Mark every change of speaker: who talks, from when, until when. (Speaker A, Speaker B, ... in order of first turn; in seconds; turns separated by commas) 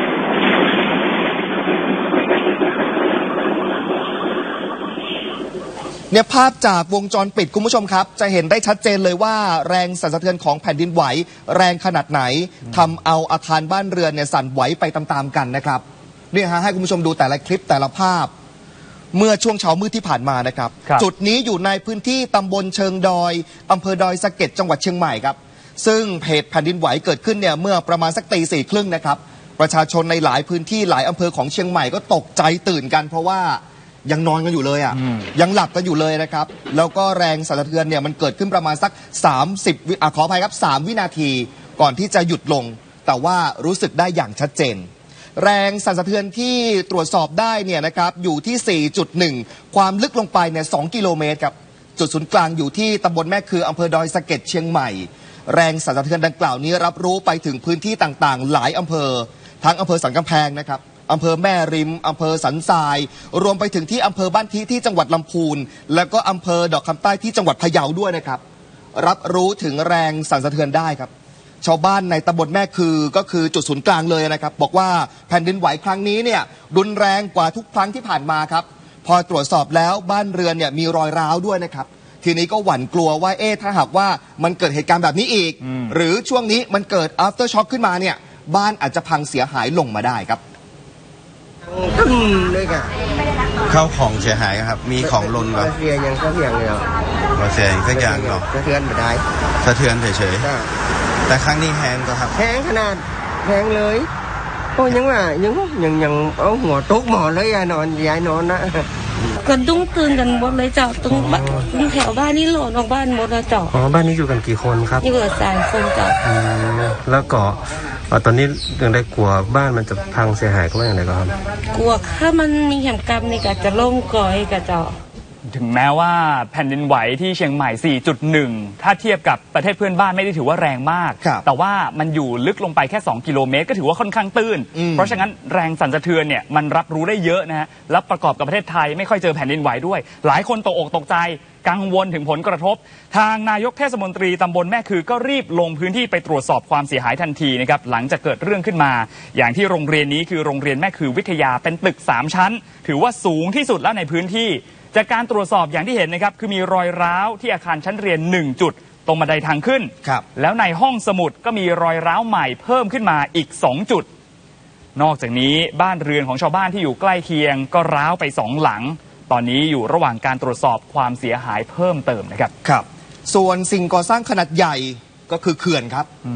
Speaker A: 6.1-18.3, Speaker A: 19.1-68.4, Speaker A: 69.0-71.1, Speaker A: 71.6-90.4, Speaker B: 91.7-92.9, Speaker C: 93.7-95.7, Speaker B: 95.0-96.9, Speaker C: 97.3-98.5, Speaker B: 97.9-99.2, Speaker C: 99.6-100.5, Speaker B: 100.4-100.7, Speaker C: 101.3-102.4, Speaker B: 102.3-104.1, Speaker B: 104.8-108.9, Speaker D: 109.4-113.7, Speaker E: 111.1-111.7, Speaker E: 113.7-115.0, Speaker D: 115.0-116.2, Speaker E: 116.2-121.4, Speaker D: 121.7-125.0, Speaker F: 125.5-164.1, Speaker A: 134.8-135.2, Speaker F: 165.0-172.5, Speaker A: 172.6-176.1